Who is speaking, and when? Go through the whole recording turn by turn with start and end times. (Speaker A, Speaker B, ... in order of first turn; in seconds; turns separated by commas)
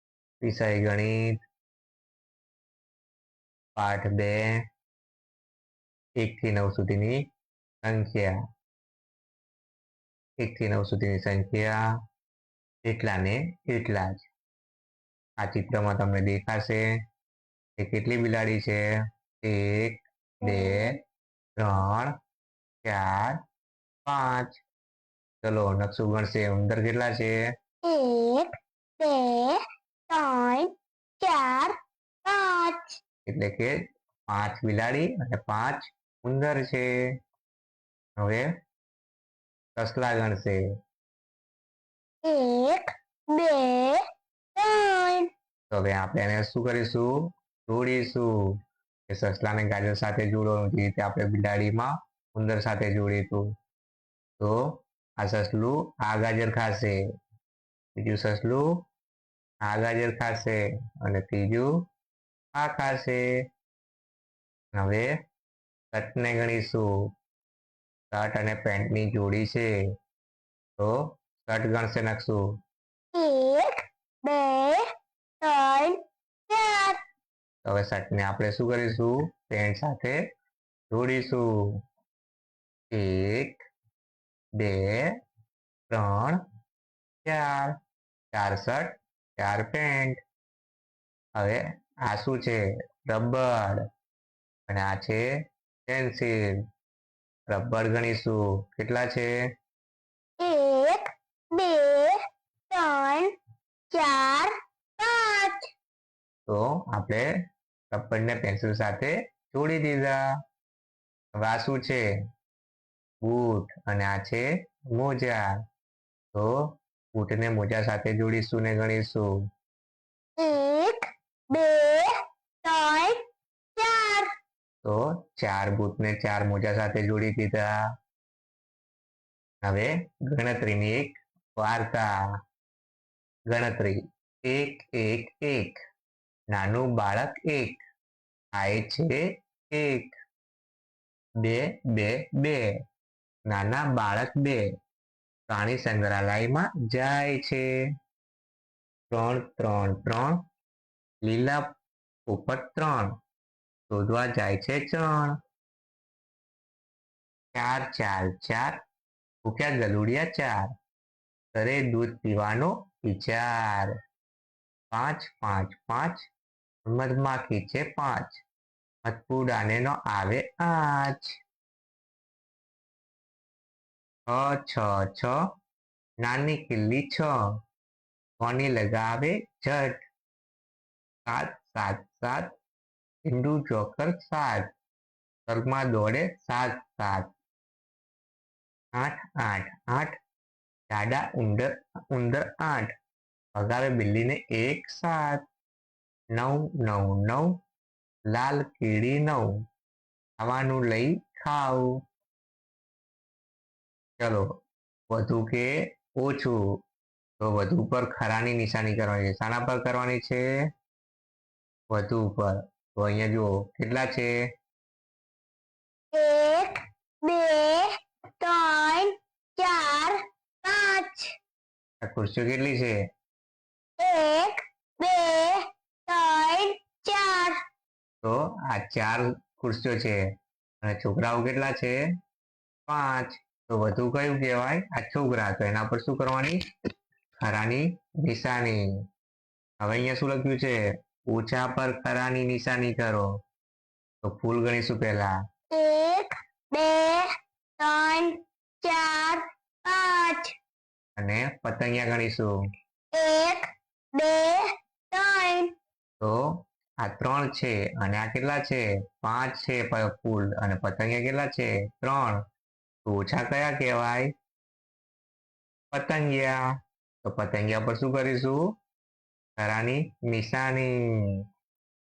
Speaker A: 0.4-1.4, Speaker A: 3.8-4.5, Speaker A: 6.2-7.2, Speaker A: 7.8-8.3, Speaker A: 10.4-11.8, Speaker A: 12.8-14.2, Speaker A: 15.4-16.8, Speaker A: 17.8-18.8, Speaker A: 19.4-21.0, Speaker B: 20.4-21.0, Speaker A: 21.6-22.1, Speaker A: 22.8-23.4, Speaker A: 24.1-24.6, Speaker A: 25.4-27.4, Speaker B: 27.8-33.0, Speaker A: 33.3-33.7, Speaker A: 34.3-36.9, Speaker A: 38.2-38.5, Speaker A: 39.8-40.6, Speaker B: 42.2-44.0, Speaker B: 44.5-45.3, Speaker A: 45.7-48.3, Speaker A: 49.1-53.5, Speaker A: 54.4-57.0, Speaker A: 58.0-58.7, Speaker A: 59.6-61.7, Speaker A: 62.5-63.2, Speaker A: 64.8-65.1, Speaker A: 65.9-66.9, Speaker A: 68.1-69.7, Speaker A: 70.8-72.4, Speaker B: 73.1-74.9, Speaker B: 75.4-77.0, Speaker A: 77.6-80.2, Speaker A: 80.9-81.5, Speaker A: 82.9-83.6, Speaker A: 84.6-85.1, Speaker A: 85.9-86.4, Speaker A: 87.2-87.8, Speaker A: 88.3-90.2, Speaker A: 91.4-93.8, Speaker A: 94.7-95.2, Speaker A: 95.9-96.3, Speaker A: 97.5-99.3, Speaker B: 100.4-103.3, Speaker B: 103.9-105.7, Speaker A: 106.5-107.2, Speaker A: 107.9-110.2, Speaker A: 111.4-112.0, Speaker A: 113.2-115.5, Speaker A: 116.3-119.3, Speaker B: 120.4-122.1, Speaker B: 122.6-123.2, Speaker B: 123.8-124.3, Speaker A: 124.8-127.7, Speaker A: 129.6-132.1, Speaker A: 133.5-135.8, Speaker A: 136.5-137.8, Speaker A: 138.5-139.2, Speaker A: 139.7-140.2, Speaker A: 141.4-142.6, Speaker A: 143.5-144.6, Speaker A: 145.5-147.7, Speaker A: 149.1-150.4, Speaker A: 151.2-151.8, Speaker A: 152.3-153.1, Speaker A: 153.9-155.4, Speaker A: 157.5-158.8, Speaker A: 159.4-160.7, Speaker A: 161.5-163.9, Speaker A: 164.9-166.2, Speaker A: 166.8-168.4, Speaker A: 169.0-171.4, Speaker A: 174.3-175.3, Speaker A: 176.2-177.3, Speaker A: 178.4-180.0, Speaker A: 181.3-182.5, Speaker A: 183.2-184.7, Speaker A: 185.5-187.3, Speaker A: 188.9-190.2, Speaker A: 190.9-192.9, Speaker A: 193.6-195.4, Speaker A: 196.3-197.6, Speaker A: 198.3-199.5, Speaker A: 200.4-201.9, Speaker A: 204.2-204.5, Speaker A: 205.1-206.6, Speaker A: 207.4-210.4, Speaker A: 211.9-214.3, Speaker B: 216.1-221.3, Speaker A: 222.0-223.0, Speaker B: 224.0-227.6, Speaker A: 228.2-230.2, Speaker A: 230.8-232.0, Speaker A: 232.9-236.6, Speaker A: 237.4-238.8, Speaker A: 239.8-240.8, Speaker A: 241.3-243.3, Speaker A: 244.2-245.3, Speaker B: 245.7-250.5, Speaker A: 251.2-252.5, Speaker B: 253.1-255.7, Speaker A: 256.2-262.4, Speaker A: 263.0-264.3, Speaker A: 265.9-266.6, Speaker A: 267.2-268.6, Speaker A: 269.6-271.0